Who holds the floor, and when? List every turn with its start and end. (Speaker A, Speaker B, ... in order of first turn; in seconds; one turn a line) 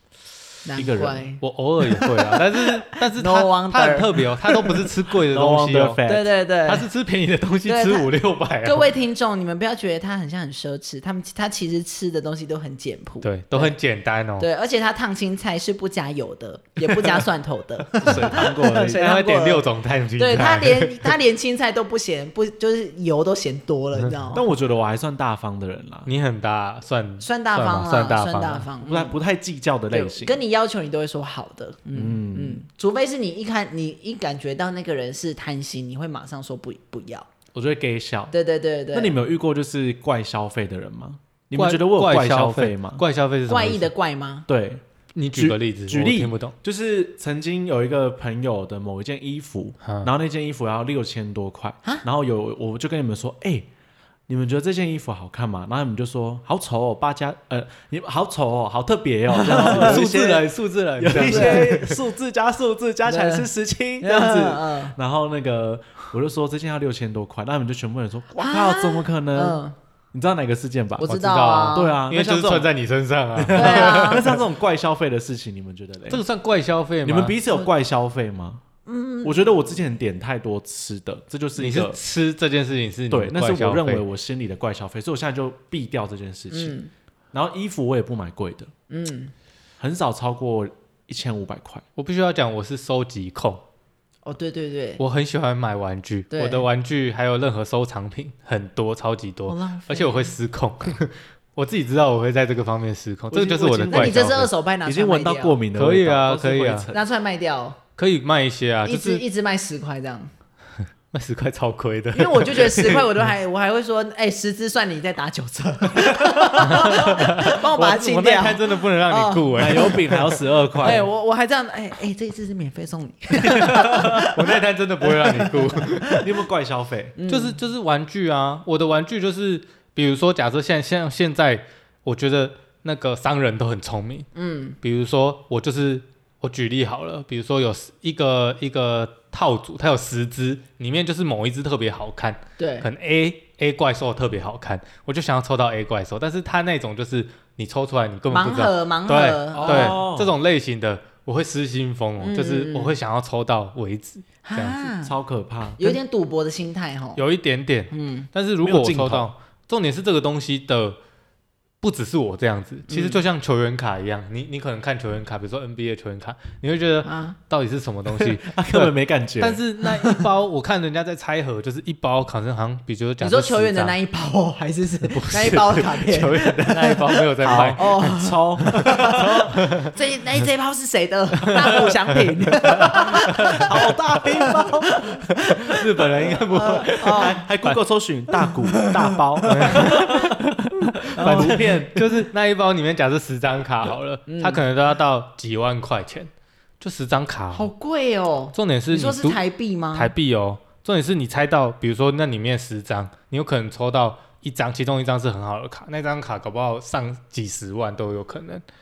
Speaker A: 0.6-1.4
Speaker B: 0.8-1.3
Speaker C: 1.4-6.0
Speaker A: 1.9-2.4
Speaker A: 2.9-4.7
Speaker B: 5.3-6.3
Speaker A: 6.0-6.9
Speaker C: 6.7-8.9
Speaker A: 7.7-8.1
Speaker A: 8.6-13.7
Speaker C: 13.2-14.5
Speaker A: 14.4-19.6
Speaker C: 17.9-21.1
Speaker B: 18.0-19.1
Speaker A: 20.2-24.4
Speaker B: 24.3-26.1
Speaker C: 26.1-28.7
Speaker A: 27.2-29.1
Speaker B: 28.8-30.4
Speaker A: 29.9-37.3
Speaker B: 31.9-32.6
Speaker B: 37.5-38.3
Speaker A: 38.3-39.2
Speaker B: 38.9-43.0
Speaker C: 41.5-43.9
Speaker A: 43.5-44.5
Speaker B: 44.5-44.8
Speaker C: 45.1-46.5
Speaker B: 45.3-53.7
Speaker C: 49.8-50.1
Speaker B: 54.3-69.6
Speaker A: 59.3-60.0
Speaker C: 59.5-62.0
Speaker A: 61.1-61.8
Speaker A: 63.0-63.5
Speaker A: 64.0-65.0
Speaker A: 68.4-69.7
Speaker B: 70.1-71.1
Speaker A: 71.0-72.0
Speaker C: 71.0-74.4
Speaker B: 71.7-72.7
Speaker B: 73.3-76.2
Speaker A: 73.5-74.3
Speaker C: 76.1-77.4
Speaker B: 77.0-78.6
Speaker A: 78.9-79.5
Speaker B: 79.2-82.0
Speaker C: 81.5-84.0
Speaker B: 83.1-86.8
Speaker A: 86.5-86.9
Speaker B: 87.3-88.7
Speaker A: 88.9-89.3
Speaker B: 89.8-91.8
Speaker C: 92.0-93.6
Speaker A: 94.2-95.0
Speaker C: 95.0-104.5
Speaker A: 96.3-96.7
Speaker A: 99.5-100.3
Speaker B: 103.3-107.0
Speaker A: 103.9-105.6
Speaker C: 105.7-106.9
Speaker A: 106.9-107.8
Speaker C: 108.0-109.2
Speaker A: 108.9-110.3
Speaker C: 111.1-113.1
Speaker A: 112.1-120.0
Speaker B: 116.2-116.6
Speaker C: 116.6-120.4
Speaker B: 119.5-121.0
Speaker A: 120.8-126.2
Speaker B: 123.5-124.2
Speaker C: 123.9-126.2
Speaker B: 126.2-127.2
Speaker A: 127.2-127.6
Speaker C: 127.3-134.3
Speaker A: 134.3-134.8
Speaker C: 134.8-154.9
Speaker A: 142.6-142.9
Speaker A: 148.3-150.0
Speaker B: 149.5-150.3
Speaker A: 152.2-152.9
Speaker A: 154.4-155.1
Speaker B: 155.0-155.9
Speaker A: 155.8-157.2
Speaker C: 157.2-161.0
Speaker A: 157.9-158.3
Speaker B: 158.6-159.3
Speaker C: 161.8-174.0
Speaker A: 162.9-163.2
Speaker A: 167.0-167.4
Speaker B: 168.1-169.6
Speaker A: 170.0-170.2
Speaker A: 173.2-187.4
Speaker C: 175.1-178.0
Speaker B: 176.3-179.6
Speaker C: 178.8-179.9
Speaker C: 182.7-183.7
Speaker B: 182.8-185.2
Speaker C: 185.4-187.8
Speaker B: 186.2-190.5
Speaker A: 188.4-190.2
Speaker C: 189.5-197.7
Speaker A: 191.1-191.6
Speaker B: 191.1-192.2
Speaker A: 194.3-194.6
Speaker A: 197.5-200.1
Speaker C: 198.5-199.4
Speaker C: 199.9-208.6